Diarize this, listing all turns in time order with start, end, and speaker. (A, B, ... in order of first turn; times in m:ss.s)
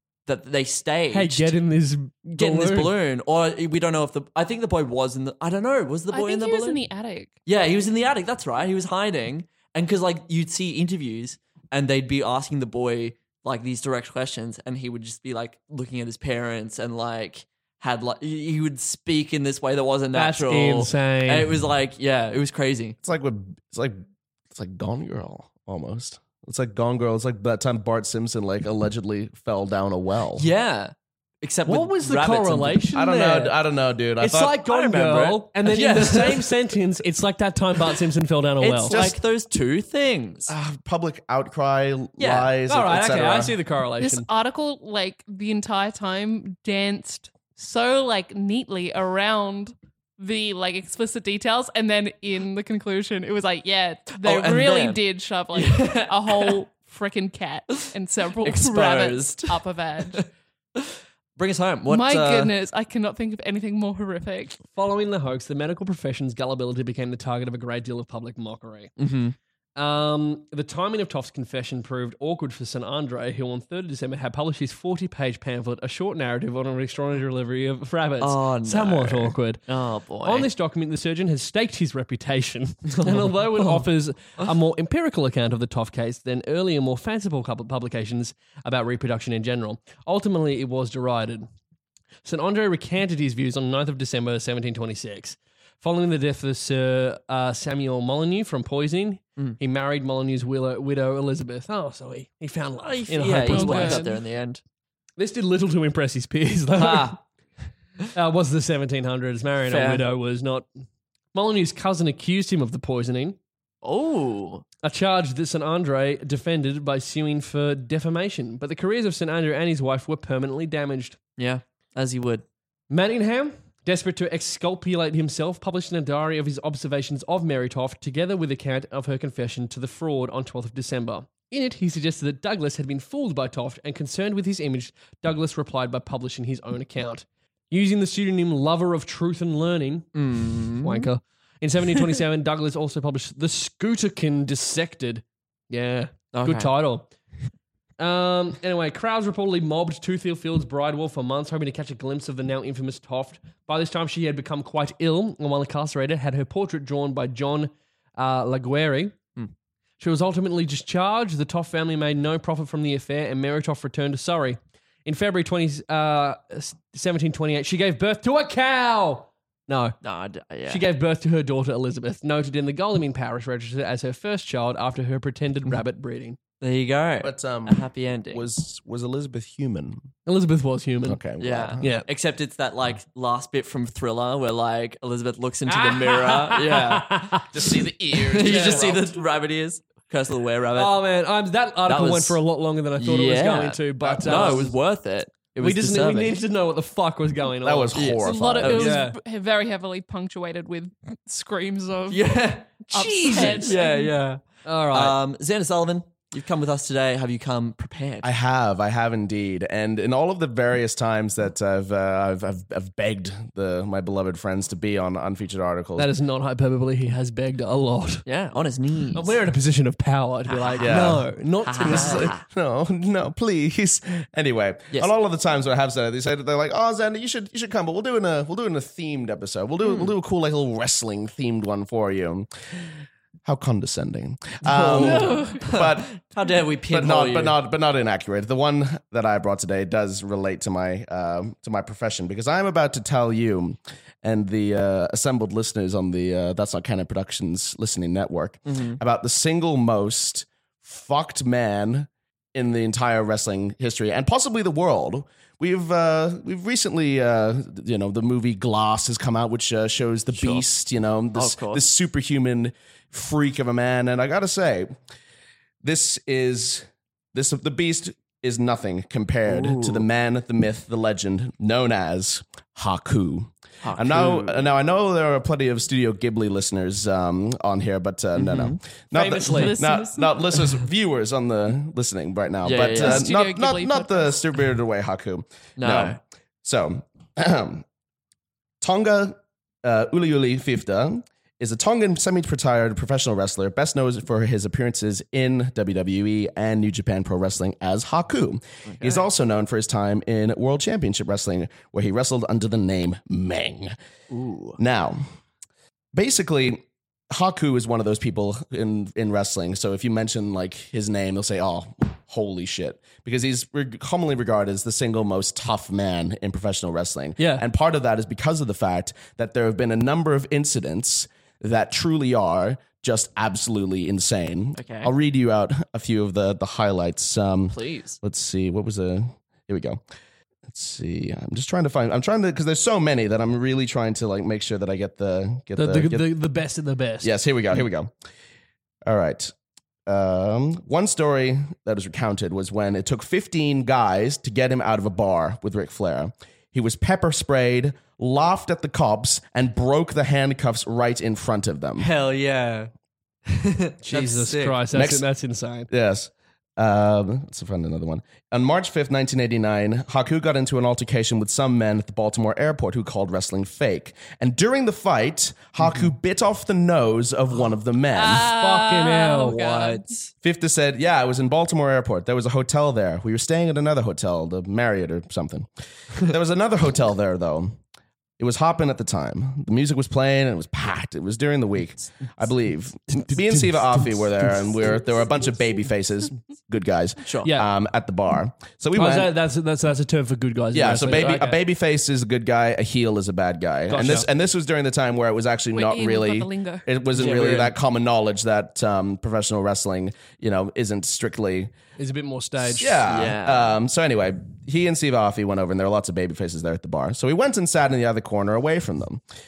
0:00.2-0:01.6 A
0:01.1-0:02.9 B
0:02.4-0:06.8 A
0:06.1-0:07.3 C
0:07.4-0:23.0 A
0:20.1-0:21.6 B
0:23.0-0:24.0 D
0:24.5-0:30.5 D
0:30.4-0:32.8 A
0:31.7-0:33.6 B
0:32.9-0:34.6 D
0:34.2-0:39.0 B
0:34.6-0:36.6 A
0:38.6-0:40.5 A
0:38.9-0:39.2 D
0:40.5-0:43.6 D
0:42.2-0:42.5 A
0:42.7-0:44.3 B
0:44.0-1:00.2 C
0:54.2-0:55.0 A
0:55.5-0:56.6 A
0:58.4-1:02.5 A
1:01.9-1:04.6 C
1:04.7-1:08.9 B
1:09.0-1:09.4 A
1:09.8-1:19.6 B
1:18.2-1:20.5 A
1:20.2-1:31.5 B
1:23.0-1:23.8 A
1:32.2-1:44.0 B
1:42.8-1:44.6 A
1:43.5-1:44.2 C
1:45.2-1:47.2 B
1:46.7-1:47.2 A
1:48.1-1:50.7 B
1:49.6-1:50.0 A
1:51.3-1:53.4 B
1:53.8-1:54.6 A
1:54.8-2:01.2 B
2:01.4-2:02.4 A
2:02.9-2:20.1 B
2:20.1-2:21.1 A
2:20.8-2:27.1 B
2:26.3-2:26.7 A
2:28.0-2:39.2 B
2:40.0-2:50.0 B
2:50.0-2:50.8 A
2:50.7-2:56.4 B
2:56.6-2:58.4 A
2:57.2-3:00.1 D
3:00.2-3:01.2 B
3:01.0-3:01.9 D
3:01.4-3:07.4 A
3:05.7-3:07.4 B
3:07.5-3:09.1 D
3:08.2-3:11.0 A
3:08.4-3:08.9 B
3:10.8-3:14.7 B
3:11.8-3:12.4 A
3:13.0-3:16.4 A
3:14.0-3:14.6 D
3:15.6-3:18.0 B
3:17.6-3:18.9 D
3:17.9-3:18.9 A
3:18.2-3:22.2 C
3:18.6-3:19.2 B
3:22.1-3:28.3 A
3:22.9-3:24.1 C
3:22.9-3:23.8 B
3:24.6-3:25.2 B
3:28.2-3:36.1 D
3:36.0-3:38.2 B
3:38.2-3:39.4 A
3:39.1-3:42.3 B
3:40.5-3:42.4 A
3:40.8-3:52.5 D
3:49.8-3:50.1 A
3:53.4-3:56.2 D
3:54.6-3:57.6 A
3:55.2-3:55.6 C
3:56.9-4:24.9 D
4:08.6-4:09.0 A
4:20.3-4:20.6 A
4:21.3-4:21.8 A
4:25.8-4:47.8 D
4:29.5-4:30.0 A
4:33.8-4:34.7 A
4:38.4-4:38.8 A
4:39.1-4:39.8 B
4:39.5-4:40.3 C
4:42.6-4:43.2 A
4:43.0-4:44.3 C
4:45.8-4:46.2 A
4:48.8-5:03.9 D
4:58.9-4:59.2 A
5:04.3-5:04.8 A
5:04.8-5:05.2 D
5:06.1-5:30.0 D
5:17.4-5:17.6 B
5:24.8-5:25.1 A
5:27.7-5:28.2 A
5:30.7-5:36.3 D
5:35.8-5:37.3 B
5:37.2-5:38.1 D
5:39.0-5:39.5 D
5:40.0-5:52.1 D
5:52.0-5:52.9 A
5:53.5-5:54.8 A
5:54.0-5:55.9 B
5:54.9-5:55.2 D
5:55.9-6:08.5 D
6:08.1-6:10.1 C
6:08.4-6:09.6 B
6:09.4-6:10.3 A
6:10.4-6:17.8 D
6:18.4-6:29.3 D
6:23.1-6:24.7 B
6:27.2-6:27.5 A
6:28.9-6:31.6 B
6:30.7-6:41.7 D
6:33.9-6:34.2 B
6:35.7-6:36.8 C
6:37.2-6:37.7 A
6:42.0-6:43.0 B
6:42.6-6:49.2 D
6:43.1-6:43.8 A